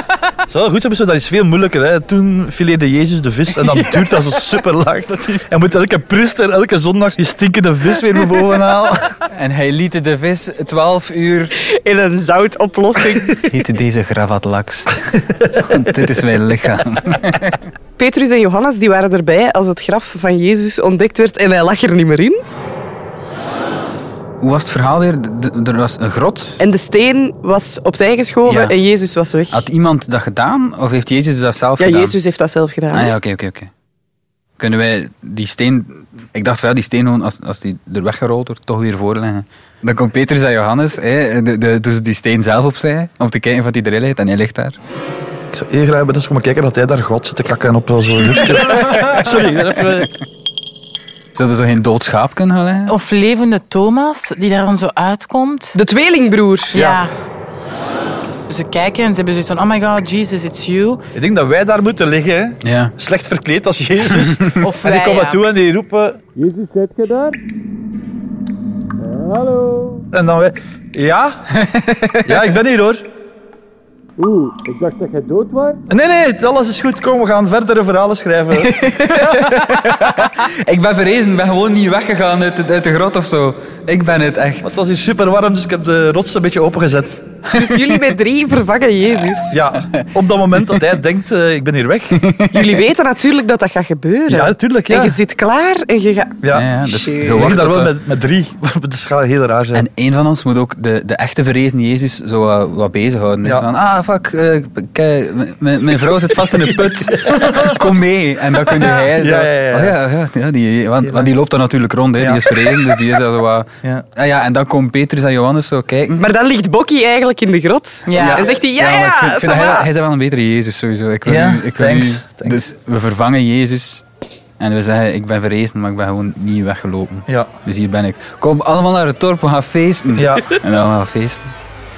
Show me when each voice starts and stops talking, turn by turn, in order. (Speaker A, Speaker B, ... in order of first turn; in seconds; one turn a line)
Speaker A: 0.5-9.2
Speaker B: 9.3-11.5
Speaker C: 11.6-13.5
Speaker B: 13.5-17.6
Speaker C: 18.0-22.4
Speaker B: 24.4-26.6
Speaker C: 26.6-29.6
Speaker B: 28.4-28.7
Speaker B: 29.5-32.2
Speaker C: 31.8-33.1
Speaker B: 32.9-33.7
Speaker B: 34.6-44.8
Speaker A: 45.5-50.1
Speaker B: 51.3-52.9
Speaker D: 52.9-55.8
Speaker C: 55.7-56.8
Speaker D: 56.7-57.1
Speaker A: 56.7-57.0
Speaker D: 58.5-61.0
Speaker A: 61.1-66.2
Speaker B: 62.6-62.9
Speaker D: 64.6-65.4
Speaker E: 66.3-67.4
Speaker E: 69.1-70.0
Speaker A: 70.1-71.5
Speaker B: 71.5-72.5
Speaker A: 72.2-73.0
Speaker E: 74.2-75.8
Speaker A: 75.9-78.8
Speaker D: 78.8-79.4
Speaker B: 78.9-84.8
Speaker A: 84.6-87.2
Speaker C: 87.5-89.6
Speaker B: 87.6-87.9
Speaker A: 89.5-92.2
Speaker B: 89.8-90.0
Speaker B: 92.1-92.8
Speaker C: 92.5-96.4
Speaker A: 94.3-95.2
Speaker A: 96.4-96.7
Speaker B: 96.5-98.0
Speaker C: 96.9-97.4
Speaker A: 97.3-99.8
Speaker B: 99.7-116.2
Speaker A: 109.0-110.0
Speaker A: 111.0-111.3
Speaker A: 112.2-112.6
Speaker C: 116.1-119.9
Speaker D: 118.0-118.5
Speaker B: 118.1-124.0
Speaker A: 121.2-122.6
Speaker B: 124.6-131.5
Speaker A: 130.2-130.6